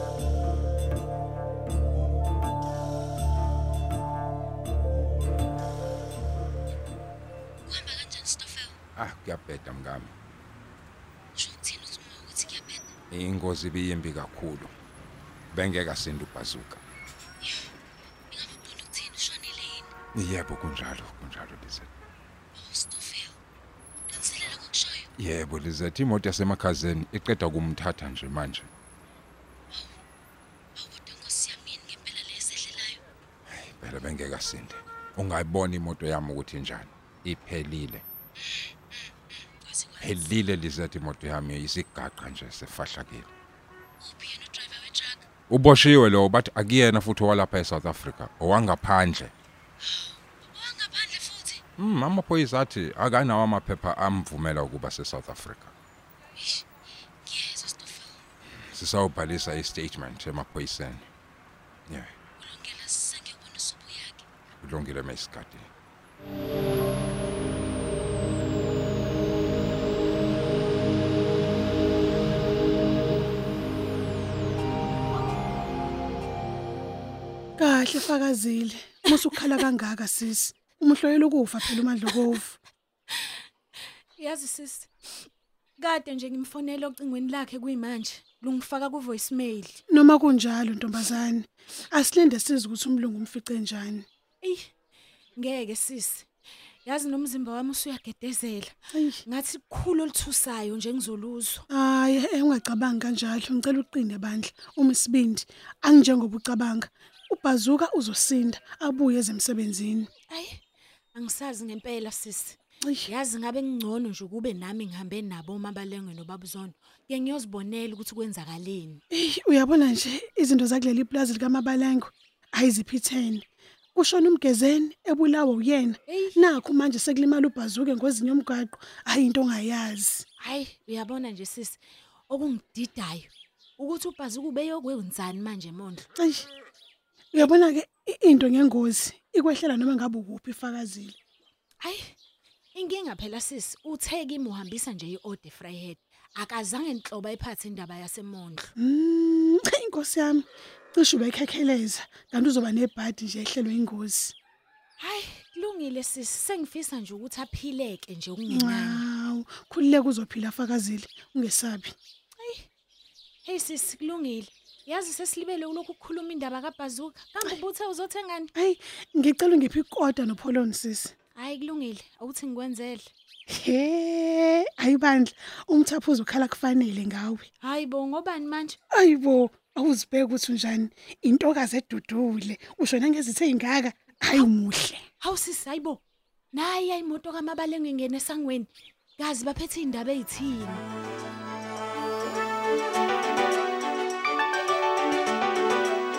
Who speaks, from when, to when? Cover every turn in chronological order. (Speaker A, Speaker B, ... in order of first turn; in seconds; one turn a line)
Speaker A: 7.7-8.8
Speaker B: 8.9-10.1
Speaker A: 11.4-12.9
Speaker B: 13.1-14.7
Speaker B: 15.5-16.8
Speaker A: 18.3-19.9
Speaker B: 20.1-21.9
Speaker A: 22.6-23.4
Speaker A: 24.1-25.1
Speaker B: 25.2-28.7
Speaker A: 30.8-33.0
Speaker B: 33.5-38.0
Speaker A: 38.4-39.9
Speaker B: 40.0-43.3
Speaker A: 44.0-45.2
Speaker B: 45.5-49.3
Speaker A: 49.9-51.6
Speaker B: 51.8-55.7
Speaker A: 56.4-56.6
Speaker A: 57.2-58.2
Speaker B: 58.6-61.1
Speaker A: 62.4-64.2
Speaker B: 64.6-65.7
Speaker C: 77.6-82.6
Speaker D: 79.0-79.6
Speaker D: 81.7-82.3
Speaker D: 83.1-83.4
Speaker D: 84.2-89.8
Speaker C: 89.9-94.0
Speaker D: 94.4-94.7
Speaker D: 95.3-96.3
Speaker D: 96.8-101.7
Speaker C: 101.7-110.1
Speaker D: 110.3-110.6
Speaker D: 111.1-119.0
Speaker C: 119.1-130.2
Speaker D: 126.1-126.5
Speaker D: 130.4-136.1
Speaker C: 136.2-136.5
Speaker C: 137.3-141.2
Speaker D: 141.8-142.2
Speaker D: 142.7-148.7
Speaker C: 148.8-154.3
Speaker D: 155.0-159.1
Speaker C: 158.5-161.9
Speaker D: 162.4-162.7
Speaker D: 163.4-168.5
Speaker C: 168.6-171.1
Speaker D: 171.3-173.1
Speaker C: 173.5-177.5
Speaker D: 177.6-178.8
Speaker C: 178.9-185.1
Speaker D: 185.2-186.0
Speaker D: 186.5-190.8